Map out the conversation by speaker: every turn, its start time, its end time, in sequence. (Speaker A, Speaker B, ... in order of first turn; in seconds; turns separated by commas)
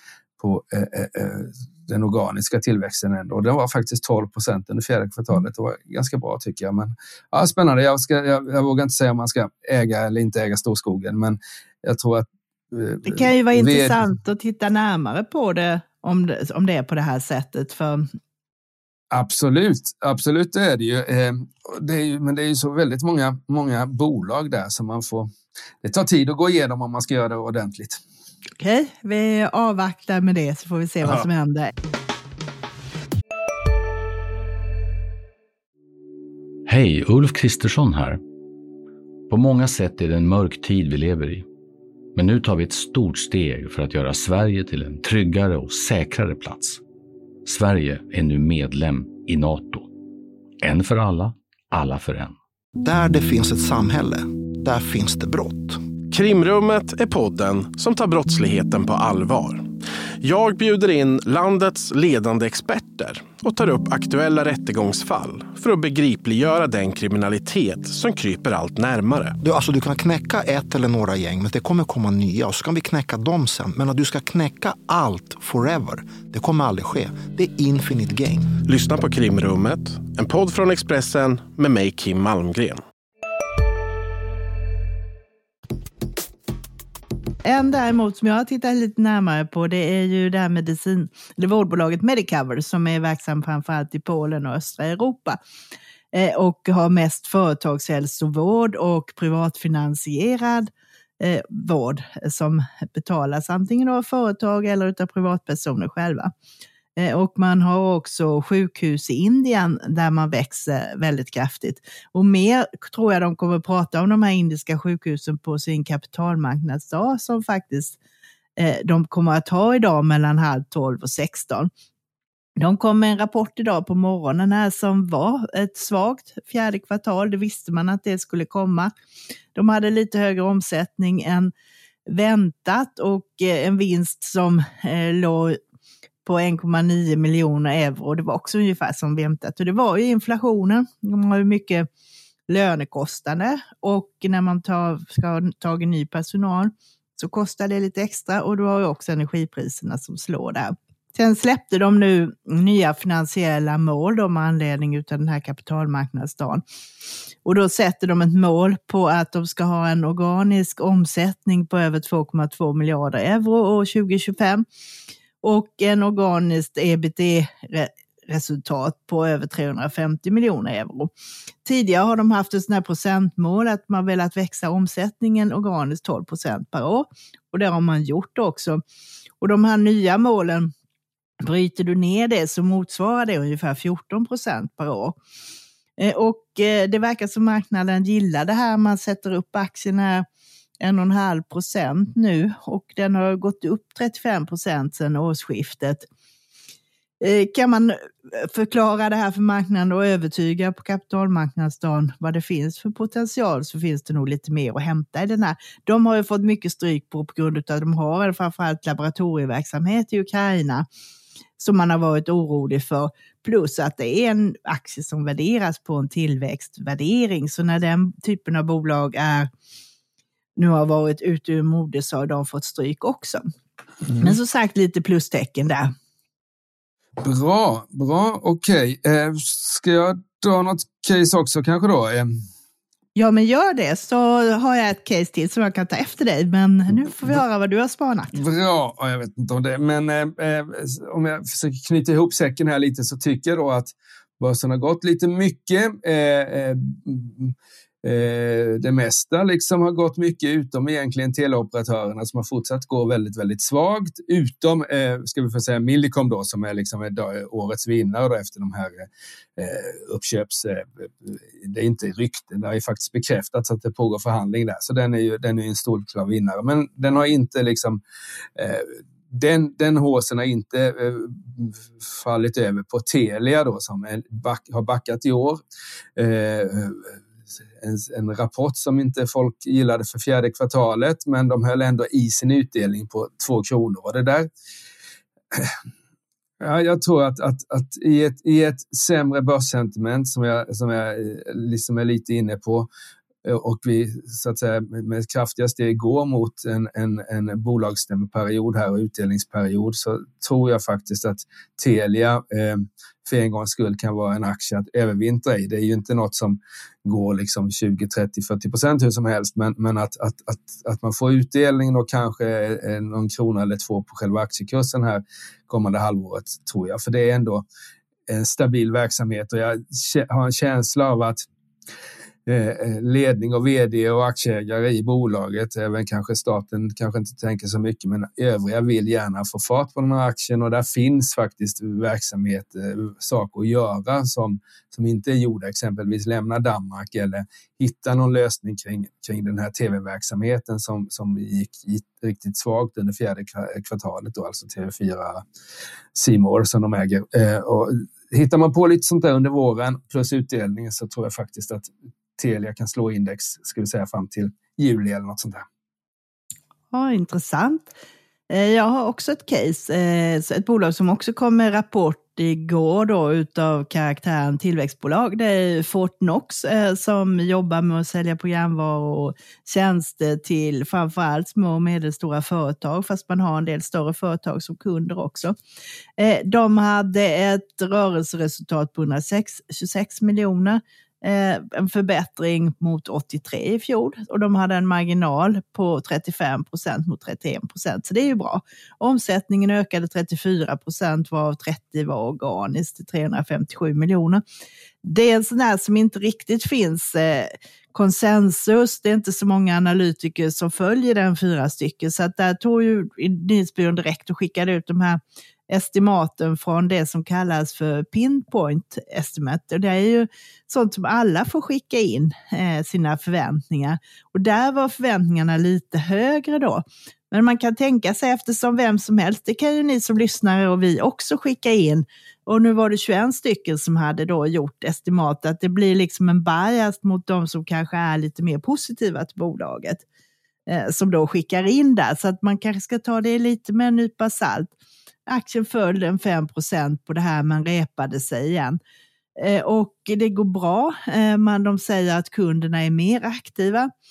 Speaker A: 0.4-14.1, Speaker B: 13.0-18.1, Speaker A: 19.1-25.3, Speaker A: 25.8-28.0, Speaker B: 28.6-31.7, Speaker C: 36.6-38.2, Speaker C: 39.3-41.5, Speaker C: 42.1-46.8, Speaker C: 47.4-49.9, Speaker C: 50.6-52.4, Speaker D: 52.8-55.8, Speaker E: 56.1-69.4, Speaker D: 69.4-78.5, Speaker E: 78.7-82.8, Speaker B: 87.4-95.4, Speaker B: 96.1-106.3, Speaker B: 107.0-118.0, Speaker B: 118.6-121.7, Speaker B: 122.6-128.9, Speaker B: 129.5-131.5, Speaker B: 132.1-135.6, Speaker B: 136.2-141.9, Speaker B: 142.5-156.6, Speaker B: 157.4-164.6, Speaker B: 165.4-171.1, Speaker B: 171.6-178.8, Speaker B: 179.4-180.7, Speaker B: 181.4-185.2, Speaker B: 186.0-190.2, Speaker B: 190.8-196.1, Speaker B: 197.2-210.9, Speaker B: 211.6-219.5, Speaker B: 220.6-223.4, Speaker A: 224.1-224.3, Speaker B: 224.2-225.9, Speaker A: 227.2-232.4, Speaker B: 233.2-238.4, Speaker A: 238.3-268.0, Speaker A: 268.6-275.6, Speaker A: 276.2-277.1, Speaker A: 277.8-284.5, Speaker A: 286.6-292.9, Speaker A: 293.4-317.6, Speaker A: 318.3-321.5, Speaker A: 322.4-345.4, Speaker A: 346.1-355.6, Speaker B: 356.9-357.9, Speaker B: 358.5-375.6, Speaker B: 376.2-394.4, Speaker B: 395.0-430.0, Speaker B: 430.7-434.7, Speaker B: 435.3-438.8, Speaker B: 439.4-443.9